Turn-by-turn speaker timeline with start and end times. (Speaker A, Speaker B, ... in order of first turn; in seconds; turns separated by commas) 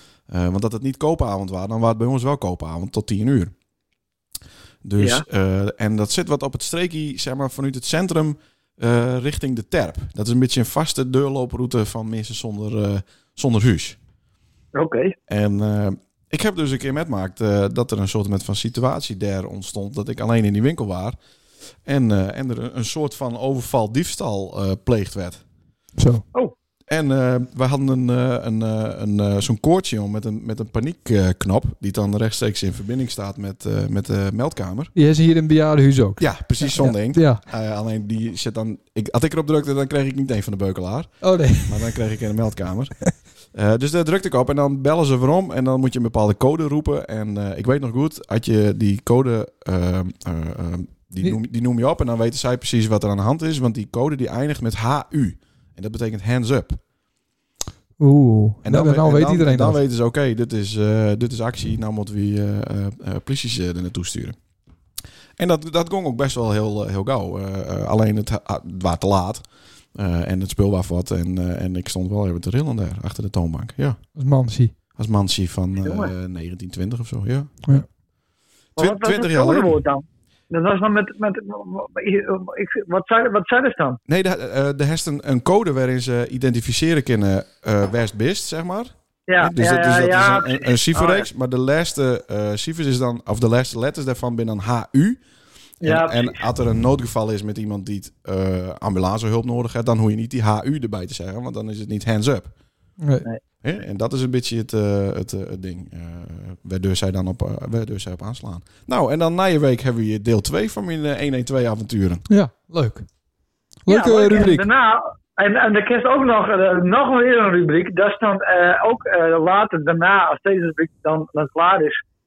Speaker A: 0.3-3.5, Speaker A: 4.8-14.0, Speaker B: 5.0-5.2, Speaker B: 14.7-15.2, Speaker A: 15.3-21.2, Speaker A: 21.8-25.4, Speaker C: 26.0-26.2, Speaker A: 26.9-34.9, Speaker C: 34.9-37.4, Speaker A: 36.2-43.0, Speaker C: 41.2-41.9, Speaker A: 43.5-56.8, Speaker C: 58.0-59.8, Speaker A: 58.6-64.4, Speaker A: 65.4-74.0, Speaker C: 74.2-74.7, Speaker A: 74.9-77.8, Speaker B: 75.8-76.1, Speaker A: 78.8-79.8, Speaker B: 78.8-84.0, Speaker A: 84.1-95.2, Speaker B: 89.3-91.3, Speaker A: 95.8-102.5, Speaker B: 95.8-96.4, Speaker C: 103.0-103.2, Speaker A: 103.6-112.2, Speaker C: 112.3-113.0, Speaker C: 113.8-114.7, Speaker B: 113.9-122.0